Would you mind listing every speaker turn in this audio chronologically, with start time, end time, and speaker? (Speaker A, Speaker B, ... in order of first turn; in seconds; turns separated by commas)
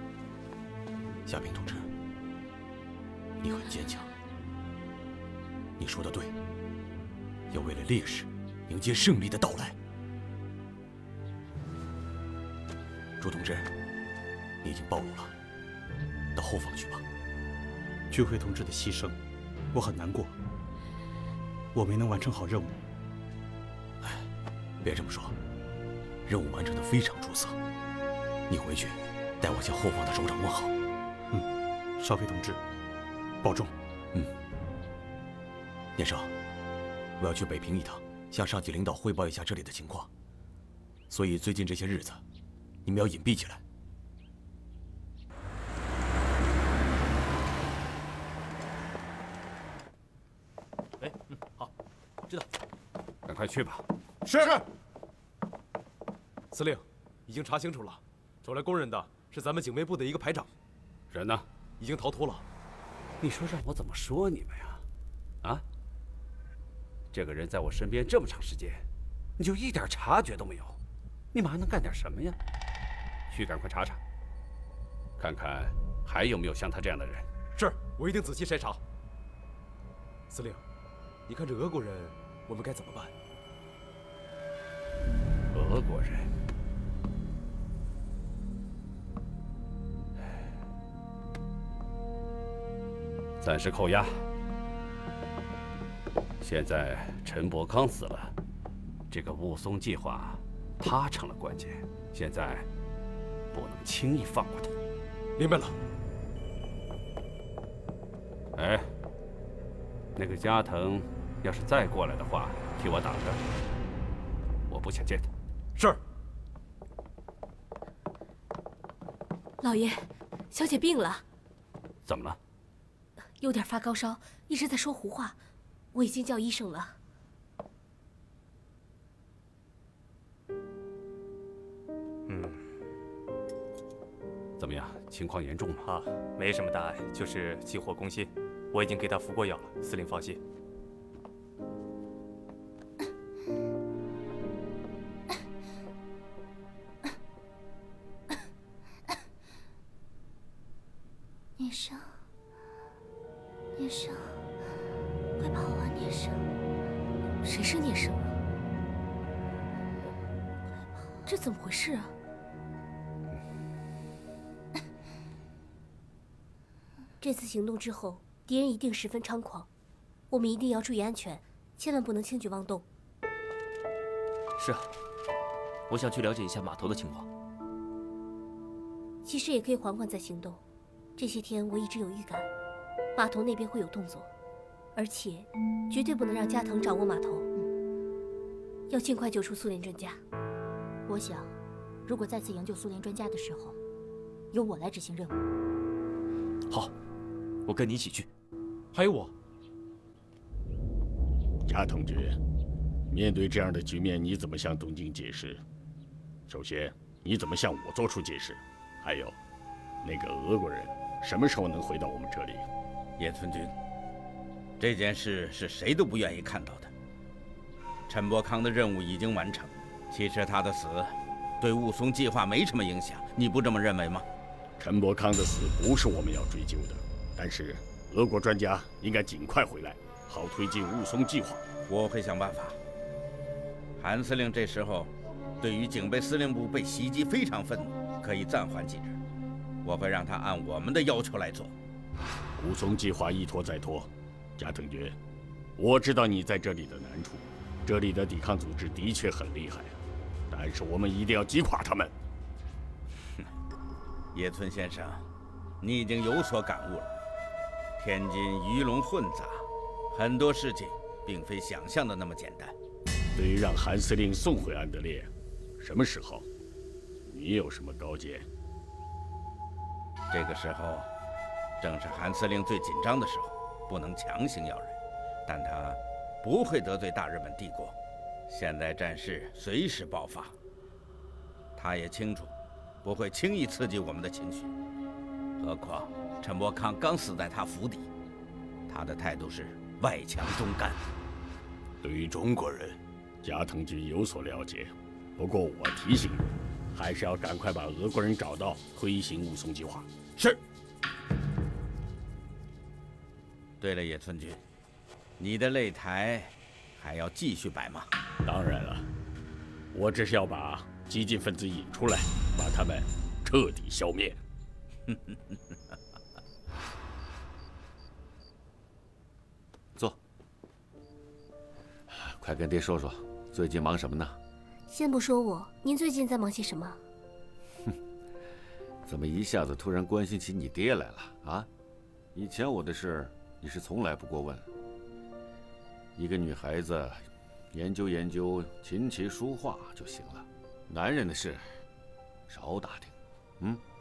Speaker A: 1.3-1.9, Speaker A: 3.4-4.1, Speaker A: 5.8-6.3, Speaker A: 7.5-9.7, Speaker A: 13.2-13.7, Speaker A: 14.6-15.3, Speaker A: 16.3-17.0, Speaker B: 18.1-19.2, Speaker B: 19.7-20.3, Speaker B: 21.7-22.7, Speaker A: 24.8-25.3, Speaker A: 26.3-27.6, Speaker A: 28.5-30.7, Speaker B: 32.0-32.6, Speaker B: 33.4-33.7, Speaker A: 36.0-36.3, Speaker A: 37.2-40.1, Speaker A: 41.1-42.2, Speaker A: 42.8-43.6, Speaker C: 51.0-51.7, Speaker D: 53.2-53.8, Speaker C: 56.5-60.5, Speaker D: 61.1-61.5, Speaker C: 61.8-62.4, Speaker D: 63.2-64.8, Speaker D: 67.1-68.8, Speaker D: 69.4-70.8, Speaker D: 71.3-72.4, Speaker D: 73.3-74.0, Speaker D: 75.2-77.3, Speaker C: 77.5-78.8, Speaker C: 80.3-80.6, Speaker C: 81.3-83.1, Speaker D: 85.5-86.3, Speaker D: 93.4-94.2, Speaker D: 96.4-98.3, Speaker D: 99.1-102.7, Speaker D: 103.5-104.7, Speaker C: 105.4-105.7, Speaker D: 108.5-108.9, Speaker D: 110.2-113.4, Speaker D: 114.7-115.3, Speaker E: 119.6-121.2, Speaker D: 122.0-122.4, Speaker E: 123.4-125.4, Speaker E: 125.9-127.0, Speaker F: 132.3-132.6, Speaker D: 134.6-135.8, Speaker F: 135.8-140.4, Speaker G: 151.6-152.2, Speaker G: 153.7-154.4, Speaker G: 155.4-156.4, Speaker E: 157.4-158.3, Speaker E: 161.3-162.1, Speaker E: 167.2-169.7, Speaker E: 170.3-172.8, Speaker H: 174.6-174.9, Speaker H: 175.9-177.3, Speaker E: 179.2-180.6, Speaker E: 181.2-182.5, Speaker E: 183.1-184.3, Speaker E: 184.9-187.5, Speaker E: 188.9-190.2, Speaker G: 191.1-191.5, Speaker G: 192.1-193.8, Speaker G: 194.5-195.4, Speaker H: 197.7-198.3, Speaker C: 198.9-199.3, Speaker I: 201.7-202.4, Speaker I: 203.1-205.6, Speaker I: 206.5-209.3, Speaker I: 210.0-212.7, Speaker J: 213.2-213.7, Speaker J: 214.8-216.9, Speaker J: 218.1-224.2, Speaker I: 224.8-231.6, Speaker J: 231.9-232.8, Speaker J: 234.0-239.2, Speaker J: 239.8-241.7, Speaker I: 242.6-245.2, Speaker I: 245.8-250.0, Speaker I: 250.5-252.1, Speaker J: 254.3-255.2, Speaker J: 255.8-257.2, Speaker J: 258.0-262.7, Speaker I: 263.3-266.4, Speaker I: 267.2-268.4, Speaker J: 270.3-271.1, Speaker J: 271.8-274.9, Speaker J: 275.5-277.9, Speaker J: 278.5-280.5, Speaker J: 281.8-282.5, Speaker J: 283.0-284.7, Speaker J: 285.6-288.1, Speaker J: 288.9-291.0, Speaker A: 292.0-293.0, Speaker I: 293.4-300.1, Speaker J: 303.8-304.6, Speaker J: 305.4-308.1, Speaker I: 308.4-309.1, Speaker I: 309.9-314.4, Speaker K: 322.1-324.4, Speaker E: 324.9-327.0, Speaker K: 329.0-331.7, Speaker K: 332.3-334.7, Speaker K: 336.1-341.8, Speaker K: 342.5-343.8